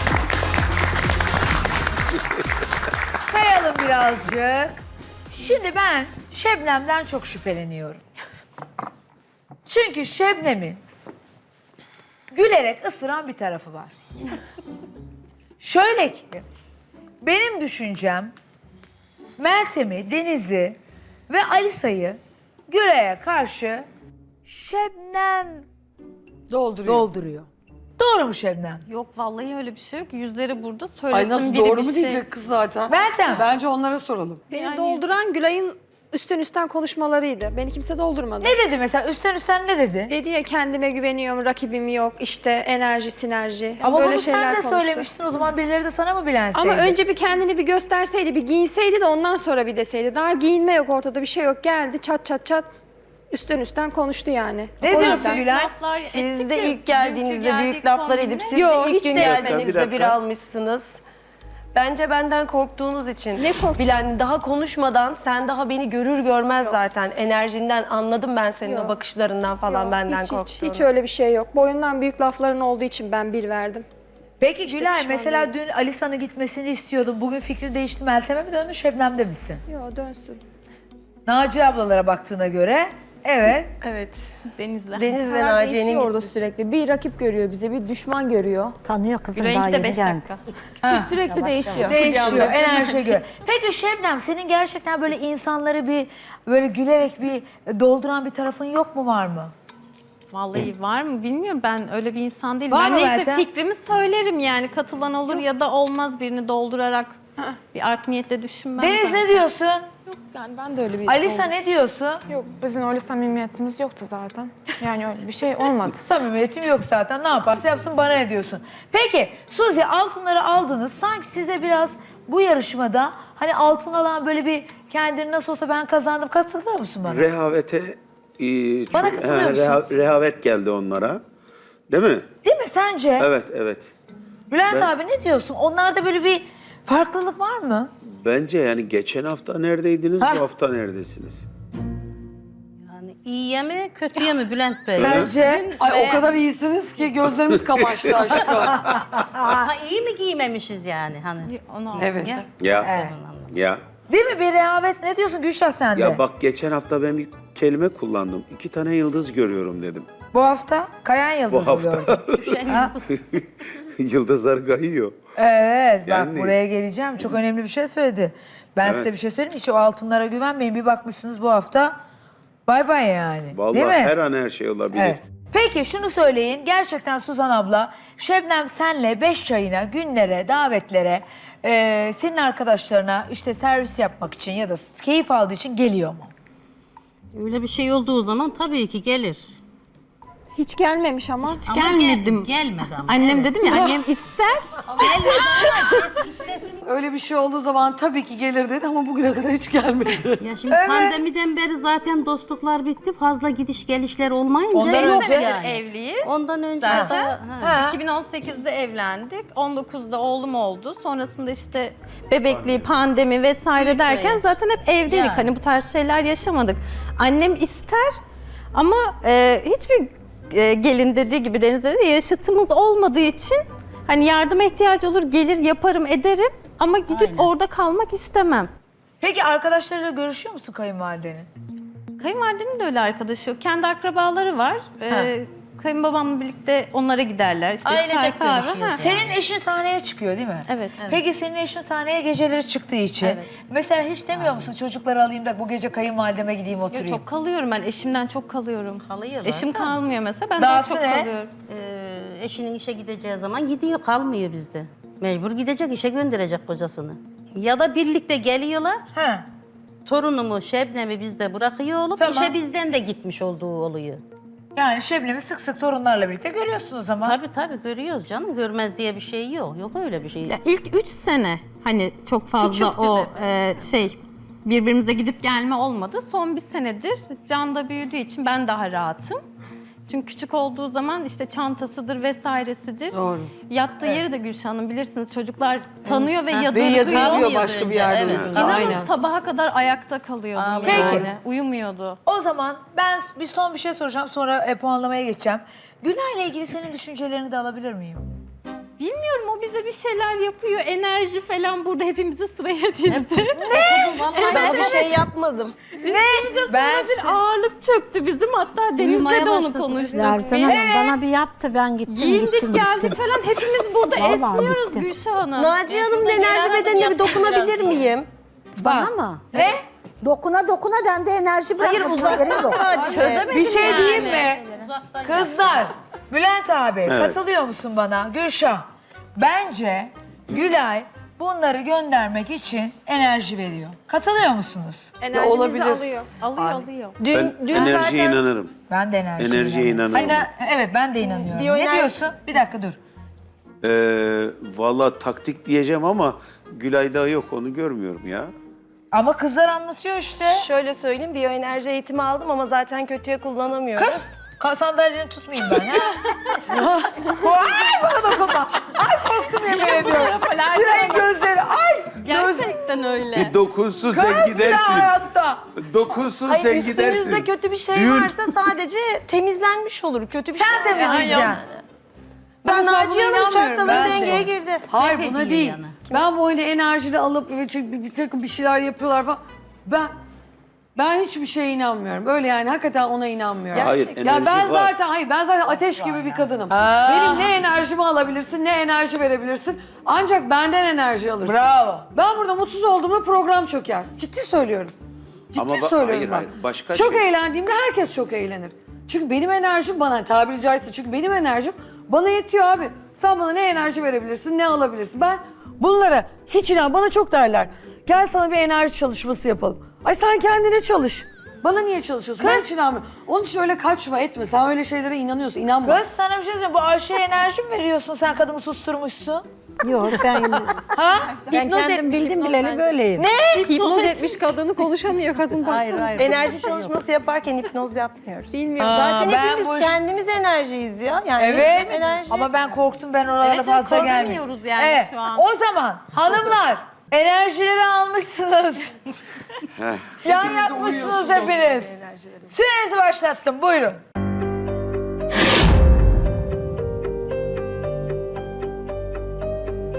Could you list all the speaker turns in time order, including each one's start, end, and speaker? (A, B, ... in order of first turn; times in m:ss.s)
0:03.3-0:08.0 A
0:09.6-0:10.8 A
0:12.3-0:14.0 A
0:15.6-0:16.4 A
0:17.2-0:18.3 A
0:19.4-0:20.8 A
0:21.3-0:23.9 A
0:24.4-0:25.6 A
0:26.5-0:27.0 B
0:26.8-0:27.5 A
0:28.0-0:28.8 A
0:28.9-0:32.2 C
0:31.1-0:34.4 B
0:32.9-0:33.4 A
0:34.5-0:38.6 D
0:34.5-0:35.0 C
0:38.4-0:40.1 A
0:40.1-0:45.1 D
0:43.8-0:47.0 A
0:46.5-0:52.7 D
0:53.3-0:55.0 D
0:54.8-0:55.7 A
0:54.8-0:58.7 C
0:56.0-1:01.0 E
0:58.5-0:59.6 D
0:59.1-1:00.2 F
1:01.7-1:10.9 E
1:03.4-1:03.9 D
1:08.6-1:09.0 D
1:09.7-1:13.8 D
1:14.4-1:19.6 A
1:14.7-1:15.5 D
1:19.7-1:20.4 D
1:21.2-1:23.7 A
1:23.8-1:24.4 E
1:24.5-1:26.0 C
1:24.9-1:28.6 E
1:25.9-1:26.9 G
1:27.4-1:28.7 G
1:28.8-1:30.3 H
1:29.4-1:30.4 C
1:30.8-1:31.1 A
1:30.8-1:33.0 G
1:31.7-1:32.7 E
1:31.8-1:39.5 A
1:40.3-1:47.2 C
1:42.7-1:43.5 A
1:47.7-1:49.3 C
1:48.8-1:49.8 A
1:50.1-1:51.5 G
1:51.0-1:52.2 A
1:52.3-1:56.0 G
1:56.0-2:07.2 A
2:07.0-2:11.2 F
2:08.9-2:09.8 A
2:11.9-2:12.3 F
2:12.4-2:13.3 A
2:13.2-2:13.9 F
2:14.5-2:17.9 A
2:18.1-2:21.5 F
2:22.9-2:25.2 I
2:25.0-2:25.3 F
2:25.0-2:25.7 A
2:25.4-2:26.4 C
2:25.8-2:28.7 B
2:27.6-2:29.1 F
2:29.4-2:31.5 I
2:31.4-2:32.4 C
2:32.0-2:32.3 B
2:32.2-2:33.5 I
2:32.6-2:33.0 F
2:32.8-2:33.1 A
2:33.5-2:33.8 F
2:34.1-2:36.2 A
2:35.9-2:40.1 F
2:40.3-2:42.9 A
2:41.5-2:45.1 F
2:42.4-2:43.0 I
2:45.4-2:52.0 A
2:46.0-2:46.6 F
2:48.8-2:49.1 F
2:52.6-2:54.1 A
2:53.5-2:55.2 F
2:54.9-3:06.3 A
3:07.3-3:09.5 I
3:10.6-3:11.6 D
3:11.4-3:14.8 C
3:11.7-3:13.8 I
3:15.0-3:16.8 I
3:16.8-3:20.4 B
3:20.4-3:27.8 I
3:20.7-3:21.2 A
3:24.7-3:25.6 A
3:24.8-3:38.1 C
3:26.9-3:28.0 A
3:32.5-3:32.9 F
3:33.8-3:34.5 I
3:35.1-3:35.5 I
3:38.7-3:48.7 C
3:47.1-3:47.5 I
3:49.2-3:51.5 A
3:52.2-3:59.0 C
3:57.8-3:59.3 I
3:59.0-4:07.2 A
4:00.7-4:01.0 C
4:04.4-4:04.7 I
4:06.9-4:11.5 C
4:09.0-4:10.0 I
4:10.6-4:11.3 A
4:11.7-4:19.0 I
4:19.1-4:19.4 A
4:20.0-4:24.2 I
4:22.2-4:22.6 A
4:24.7-4:27.4 A
4:27.2-4:30.5 I
4:30.4-4:39.4 C
4:32.6-4:33.4 I
4:40.1-4:47.6 C
4:43.1-4:43.5 B
4:46.0-4:49.0 B
4:46.6-4:49.1 I
4:48.3-4:48.7 F
4:48.5-4:52.2 C
4:50.5-4:51.3 I
4:50.8-4:51.3 A
4:52.2-4:58.2 A
4:59.0-5:05.2 C
5:03.1-5:05.0 I
5:03.7-5:04.2 A
5:04.5-5:05.7 E
5:06.0-5:10.8 C
5:06.0-5:07.4 A
5:09.0-5:10.3 I
5:10.1-5:13.2 H
5:10.6-5:11.2 A
5:12.1-5:17.4 C
5:14.2-5:15.1 H
5:15.6-5:18.3 E
5:16.9-5:18.1 I
5:18.8-5:19.8 A
5:18.8-5:19.6 H
5:20.2-5:22.9 H
5:21.8-5:23.4 E
5:22.6-5:24.6 C
5:23.5-5:35.1 A
5:23.8-5:25.9 I
5:27.0-5:27.4 F
5:35.2-5:36.3 D
5:35.3-5:36.0 B
5:36.4-5:37.2 C
5:37.2-5:38.3 E
5:37.2-5:38.7 F
5:38.9-5:43.0 A
5:39.4-5:40.5 F
5:41.2-5:42.1 E
5:43.8-5:48.5 F
5:49.1-5:50.7 A
5:50.4-5:54.2 E
5:54.0-6:02.7 A
5:56.7-5:57.1 B
5:59.7-6:01.3 C
6:02.2-6:03.5 C
6:03.3-6:05.1 F
6:04.1-6:05.7 A
6:05.8-6:08.5 F
6:06.4-6:11.8 E
6:10.6-6:11.6 A
6:12.6-6:15.0 E
6:12.7-6:14.5 A
6:14.9-6:20.1 B
6:15.0-6:16.0 I
6:16.0-6:16.3 E
6:20.9-6:34.9 B
6:23.7-6:24.9 F
6:26.7-6:27.5 A
6:31.4-6:32.1 A
6:35.5-6:56.0 B
6:35.5-6:37.2 F
6:52.4-6:52.6 A
6:55.8-6:59.4 A
6:59.8-7:00.8 H
7:00.9-7:01.4 A
7:01.4-7:06.1 D
7:01.5-7:03.3 H
7:03.6-7:04.5 C
7:05.5-7:07.0 H
7:06.2-7:12.5 E
7:08.5-7:09.0 D
7:08.8-7:10.0 A
7:11.4-7:18.9 A
7:13.4-7:15.4 C
7:19.8-7:20.3 F
7:20.2-7:21.9 A
7:20.3-7:21.6 B
7:20.6-7:22.5 E
7:22.5-7:24.0 A